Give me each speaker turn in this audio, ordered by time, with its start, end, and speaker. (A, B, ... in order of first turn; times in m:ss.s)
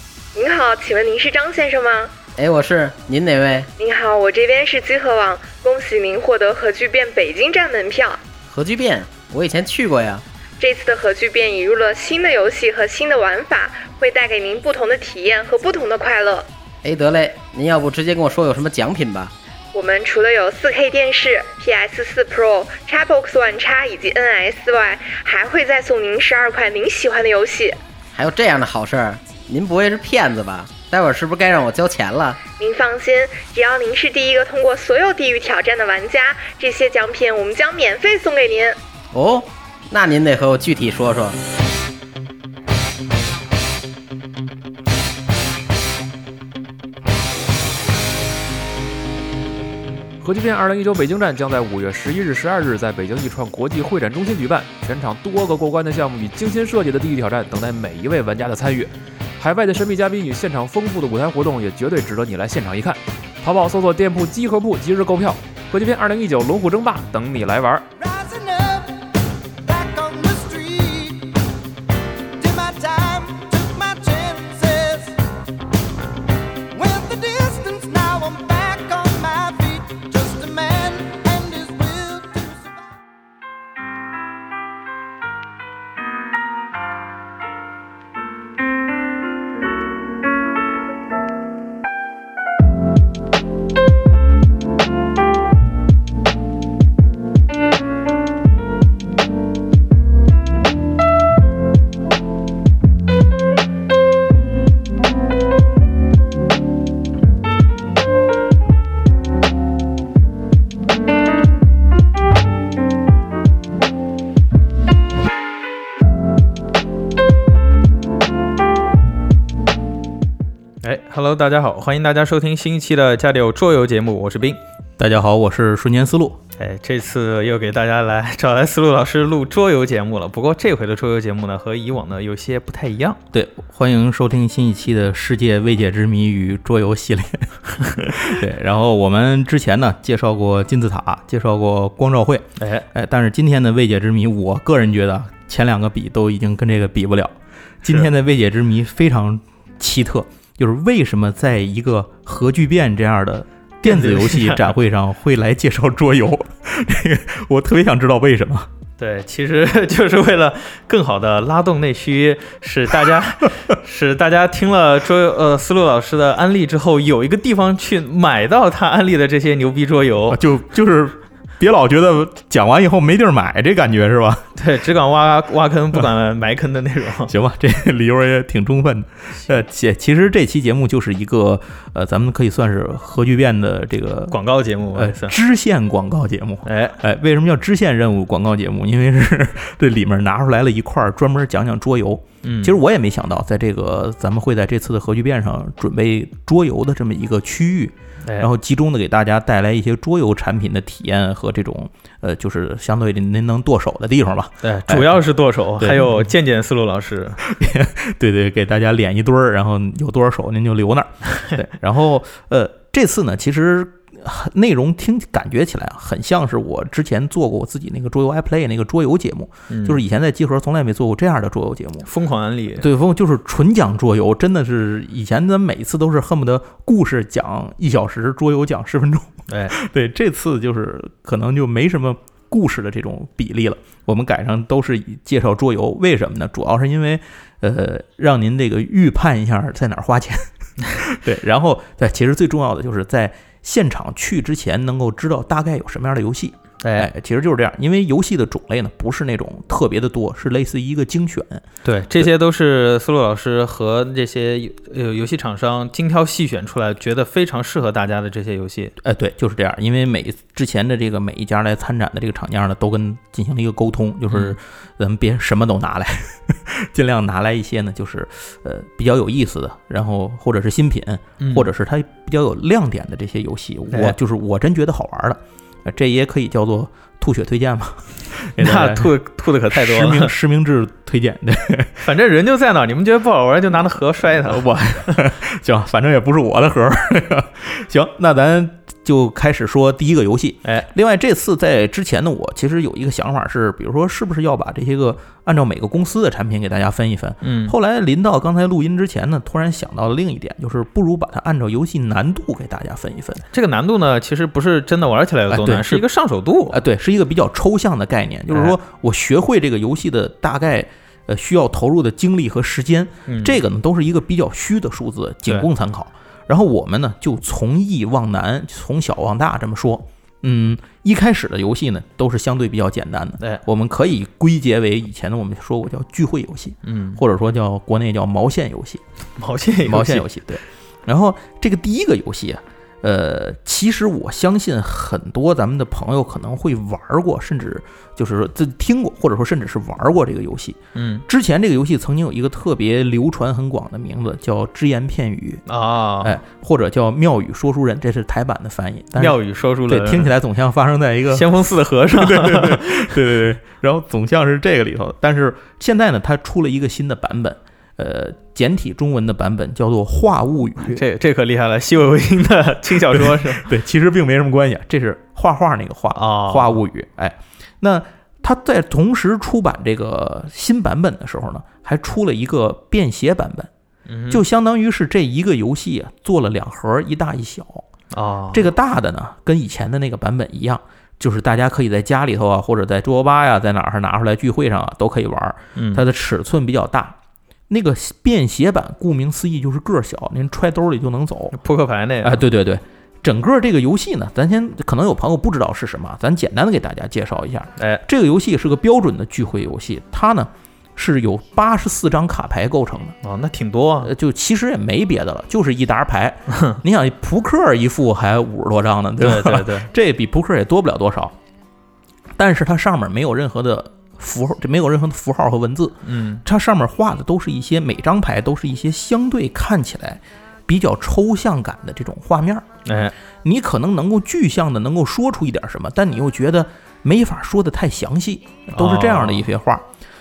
0:00.4-0:02.1 A
0:02.4-0:03.7 B
0:03.8-0:08.2 A
0:08.5-0:10.2 B
0:10.6-0:16.5 A
0:16.8-0:19.3 B
0:19.7-0:27.8 A
0:28.2-0:32.4 B
0:32.6-0:38.8 A
0:39.1-0:41.4 B
0:50.2-1:07.9 C
1:08.0-1:11.4 D
1:12.4-1:15.2 D
1:16.7-1:22.7 D
2:00.8-2:04.6 E
2:05.0-2:06.4 F
2:06.6-2:13.2 E
2:13.3-2:38.7 F
2:22.6-2:22.9 E
2:33.8-2:34.7 E
2:39.0-2:50.4 E
2:50.3-2:54.5 F
2:54.6-2:57.3 E
2:57.3-3:04.4 F
3:04.3-3:05.4 E
3:04.9-3:25.2 F
3:06.6-3:07.0 E
3:12.4-3:12.8 E
3:24.6-3:27.4 E
3:25.8-3:26.3 F
3:27.4-3:42.1 F
3:39.7-3:40.0 E
3:42.0-3:42.9 E
3:42.8-4:11.6 F
3:49.5-3:49.8 E
4:06.8-4:07.1 E
4:11.8-4:18.9 E
4:19.0-4:39.1 F
4:24.3-4:24.6 E
4:31.4-4:31.7 E
4:33.9-4:34.2 E
4:38.6-4:40.3 E
4:39.7-4:42.0 F
4:42.0-4:45.2 E
4:44.4-5:03.4 F
4:57.4-4:57.8 E
5:03.5-5:06.8 E
5:05.5-5:06.1 F
5:06.7-5:29.0 F
5:08.5-5:08.8 E
5:13.3-5:13.6 E
5:26.8-5:27.2 E
5:29.4-5:30.3 E
5:29.8-5:45.6 F
5:41.0-5:41.2 E
5:45.7-5:46.4 E
5:46.2-5:51.6 F
5:49.2-5:50.3 E
5:51.3-5:53.2 E
5:52.1-6:01.0 F
6:00.8-6:03.7 E
6:03.1-6:13.7 F
6:06.1-6:06.8 E
6:14.1-6:14.4 E
6:14.3-6:17.9 F
6:18.1-6:18.7 E
6:18.5-6:27.2 F
6:25.8-6:26.0 E
6:27.7-6:31.6 F
6:31.5-6:32.4 E
6:32.2-6:43.2 F
6:37.8-6:38.0 E
6:43.2-6:44.1 E
6:44.0-6:51.4 F
6:46.5-6:46.8 E
6:49.2-6:49.9 E
6:52.4-7:02.7 F
6:56.0-6:56.4 E
7:02.9-7:03.1 E
7:03.4-7:09.8 F
7:08.7-7:09.5 E